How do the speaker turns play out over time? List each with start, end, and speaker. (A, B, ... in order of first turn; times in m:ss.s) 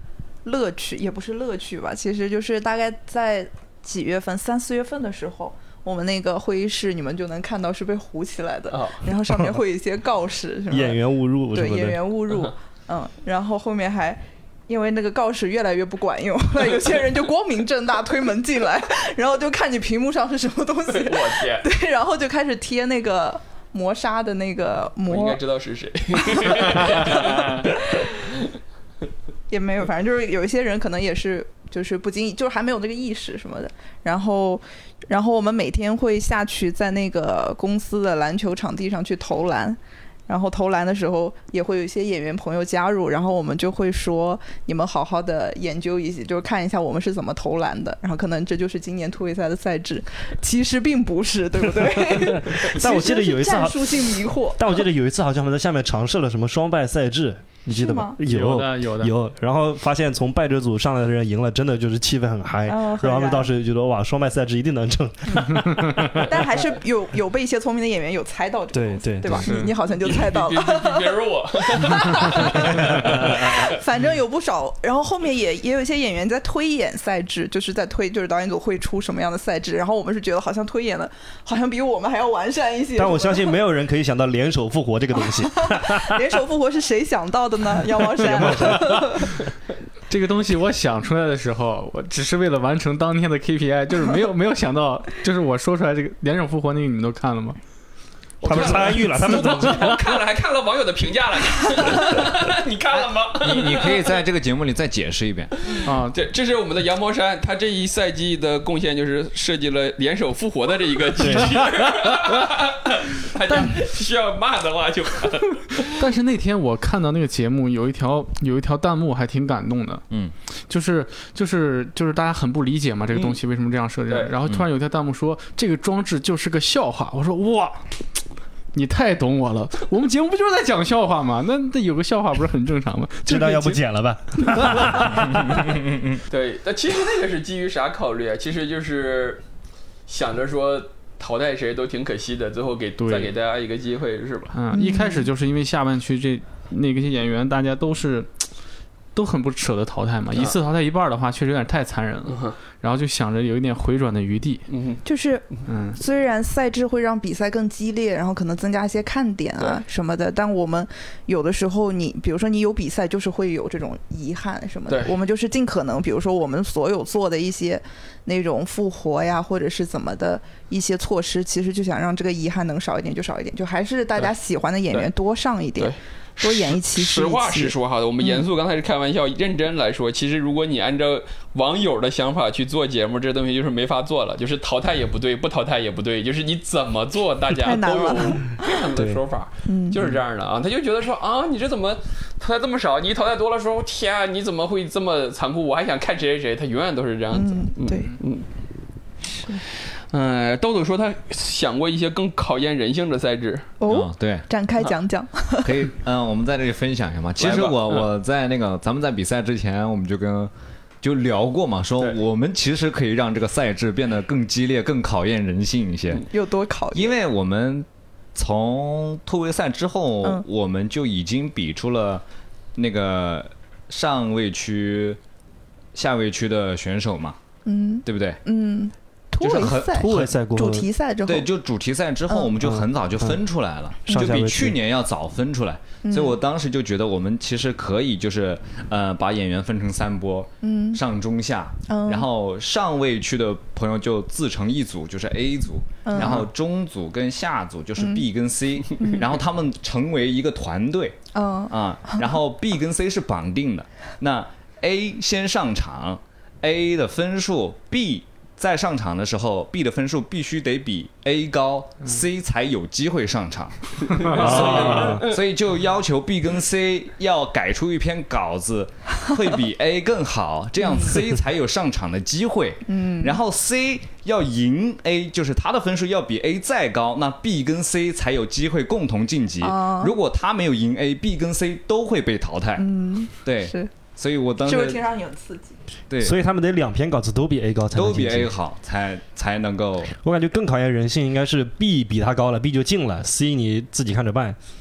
0:00.4-0:25.4 A
0:08.7-0:09.0 B
0:10.7-0:12.0 C
0:20.9-0:21.7 B
0:25.1-0:28.5 B
0:26.2-0:27.9 A
0:29.5-0:54.8 A
0:51.8-1:06.2 C
0:57.7-0:58.2 A
0:58.2-0:59.1 D
1:02.7-1:03.5 A
1:06.1-1:11.2 A
1:08.7-1:09.5 C
1:09.4-1:09.8 D
1:09.9-1:13.7 B
1:11.7-1:23.5 A
1:23.0-1:26.2 C
1:25.5-1:29.4 A
1:28.2-1:29.0 C
1:28.5-1:29.2 D
1:30.1-1:37.6 D
1:38.4-1:40.1 C
1:38.4-1:44.2 B
1:38.4-1:39.1 D
1:43.0-1:45.5 E
1:45.6-1:56.0 B
1:45.8-1:46.2 D
1:51.2-1:51.6 C
1:56.0-2:00.0 D
2:00.7-2:07.9 D
2:03.1-2:03.4 B
2:08.7-2:13.8 D
2:13.3-2:15.5 C
2:14.6-2:15.0 D
2:15.2-2:16.2 E
2:16.3-2:19.4 B
2:20.1-2:24.5 B
2:23.0-2:23.3 D
2:24.5-2:28.5 D
2:24.7-2:25.3 A
2:29.1-2:34.6 D
2:32.3-2:32.6 B
2:34.7-2:35.0 B
2:35.0-2:58.4 A
2:35.7-2:36.0 D
2:44.9-2:45.2 B
2:55.8-3:18.5 B
3:07.5-3:08.6 A
3:09.7-3:10.0 A
3:17.3-3:18.1 A
3:19.3-3:19.6 A
3:19.7-3:23.7 B
3:23.8-3:25.8 A
3:23.9-3:24.5 E
3:25.6-3:36.3 E
3:27.4-3:28.1 B
3:36.3-3:37.2 A
3:36.9-3:42.2 E
3:42.8-3:45.2 E
3:45.9-3:47.4 E
3:47.6-3:51.5 A
3:48.0-3:48.4 E
3:49.4-3:50.3 E
3:49.6-3:50.9 C
3:51.2-4:42.9 E
3:52.6-3:53.4 C
3:54.1-3:54.8 C
3:56.0-3:56.4 A
4:00.6-4:01.0 A
4:01.9-4:02.3 A
4:06.0-4:06.5 A
4:09.0-4:09.3 A
4:11.3-4:12.2 A
4:24.1-4:25.4 B
4:24.4-4:25.2 C
4:30.8-4:31.2 A
4:32.9-4:33.4 A
4:39.6-4:40.1 A
4:42.8-4:43.9 A
4:43.4-4:45.0 E
4:44.6-4:45.8 A
4:46.1-4:46.4 E
4:46.2-4:48.5 C
4:47.9-4:50.1 E
4:50.2-4:54.6 C